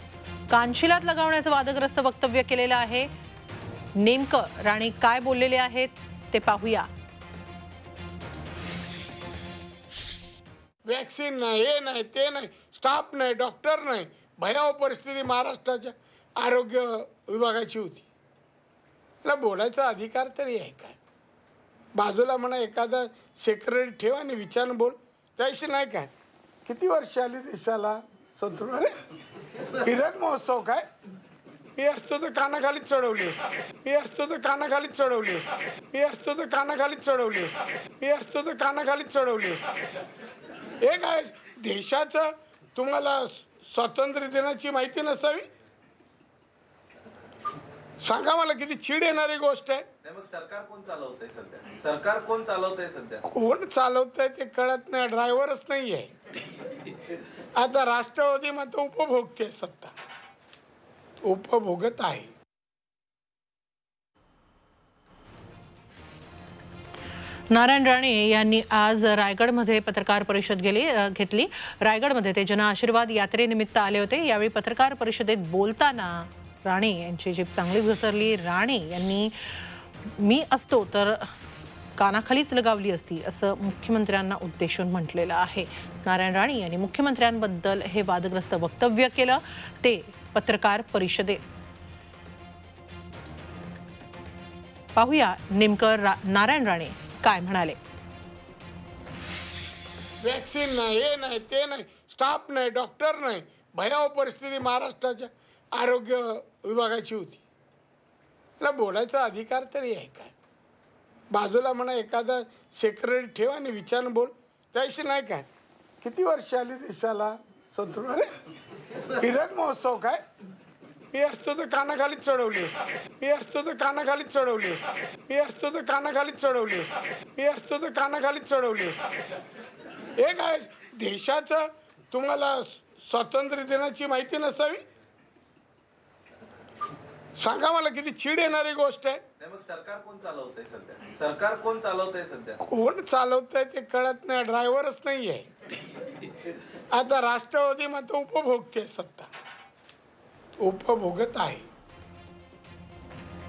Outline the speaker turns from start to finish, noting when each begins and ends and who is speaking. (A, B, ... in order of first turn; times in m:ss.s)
0:00.5-0:03.1 A
0:03.9-0:06.9 A
0:10.9-0:18.0 B
0:19.2-0:21.0 B
0:22.0-0:26.1 B
0:26.6-0:28.9 B
0:29.8-0:30.8 B
0:31.8-0:39.7 B
0:40.8-0:45.4 B
0:48.0-0:49.8 B
0:50.0-0:53.2 C
0:53.2-0:56.1 B
0:57.6-0:59.9 B
1:01.2-1:02.3 B
1:07.5-1:21.3 A
1:22.0-1:31.4 A
1:34.9-1:37.8 A
1:40.2-1:47.4 B
1:48.6-1:50.3 B
1:51.3-1:55.5 B
1:56.0-1:58.3 B
1:59.2-2:00.2 B
2:01.1-2:09.1 B
2:10.2-2:14.8 B
2:17.4-2:19.2 B
2:19.4-2:22.6 C
2:22.6-2:25.4 B
2:26.9-2:29.3 B
2:30.6-2:31.6 B